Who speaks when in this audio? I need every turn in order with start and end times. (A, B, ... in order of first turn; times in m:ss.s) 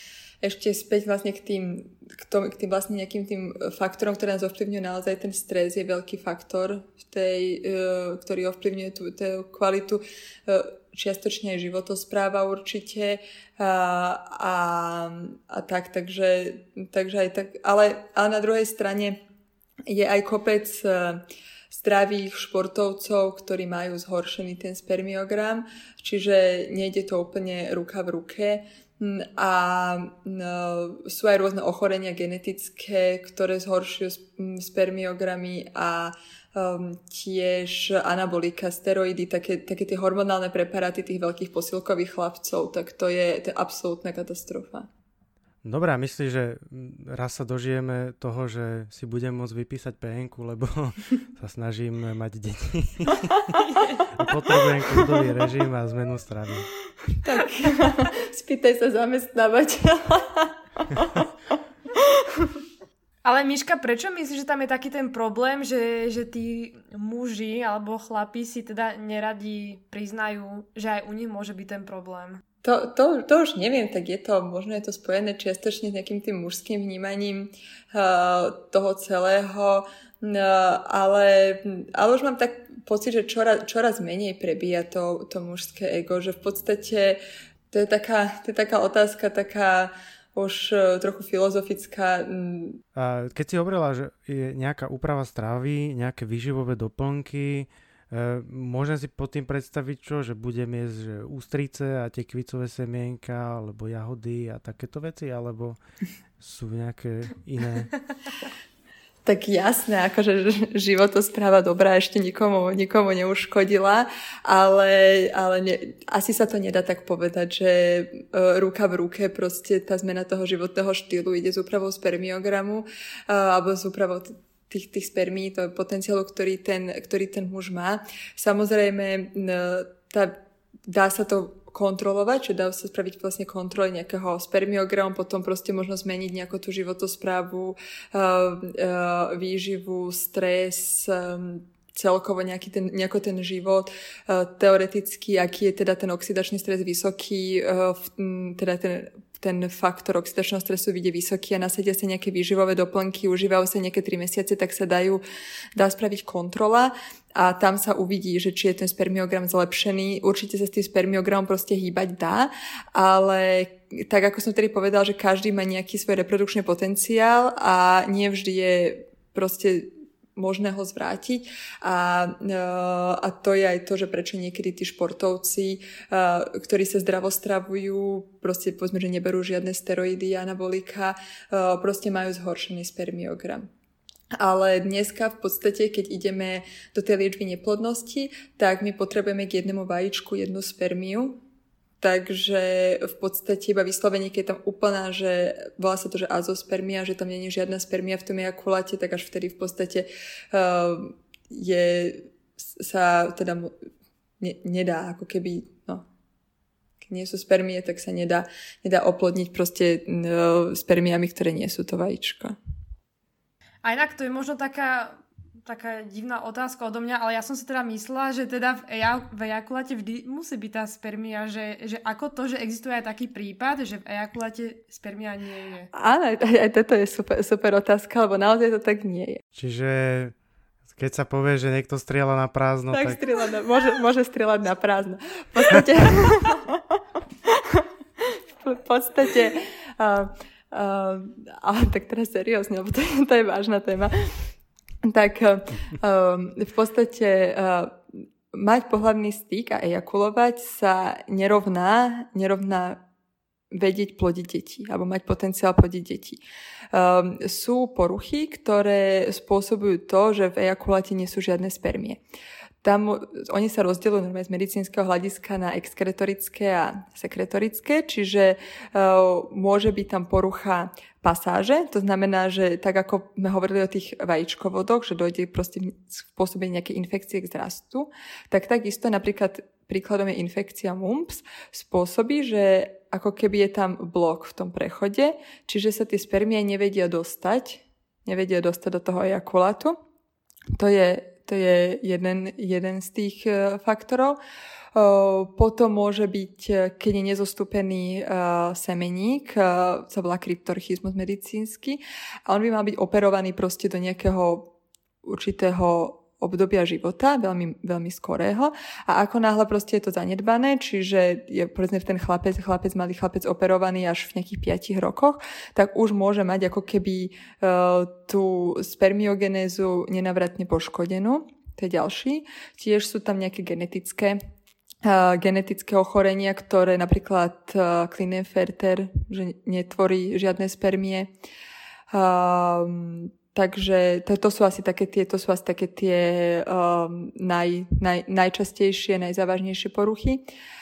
0:00.4-0:19.2 A
0:19.9-0:44.9 A
0:45.6-0:53.6 B
0:53.6-0:54.0 C
0:54.2-0:56.7 B
0:57.2-1:01.3 A
1:01.9-1:02.6 A
1:03.2-1:12.4 C
1:12.6-1:27.2 A
1:27.7-1:32.8 A
1:33.0-1:45.8 B
1:46.4-1:48.0 B
1:49.2-2:35.2 A
2:35.8-3:03.7 A
3:04.4-3:11.4 A
3:12.0-3:23.7 A
3:24.4-3:26.1 A
3:27.0-3:32.6 A
3:33.8-3:45.9 C
3:45.9-3:49.4 A
3:49.6-3:50.3 B
3:50.9-3:53.2 B
3:52.9-4:04.5 A
4:05.0-4:13.0 A
4:13.7-4:16.4 A
4:16.9-4:22.2 A
4:22.8-4:50.0 A
4:50.8-4:54.4 A
4:54.9-5:24.4 A
5:25.0-5:31.3 A
5:32.1-5:40.4 A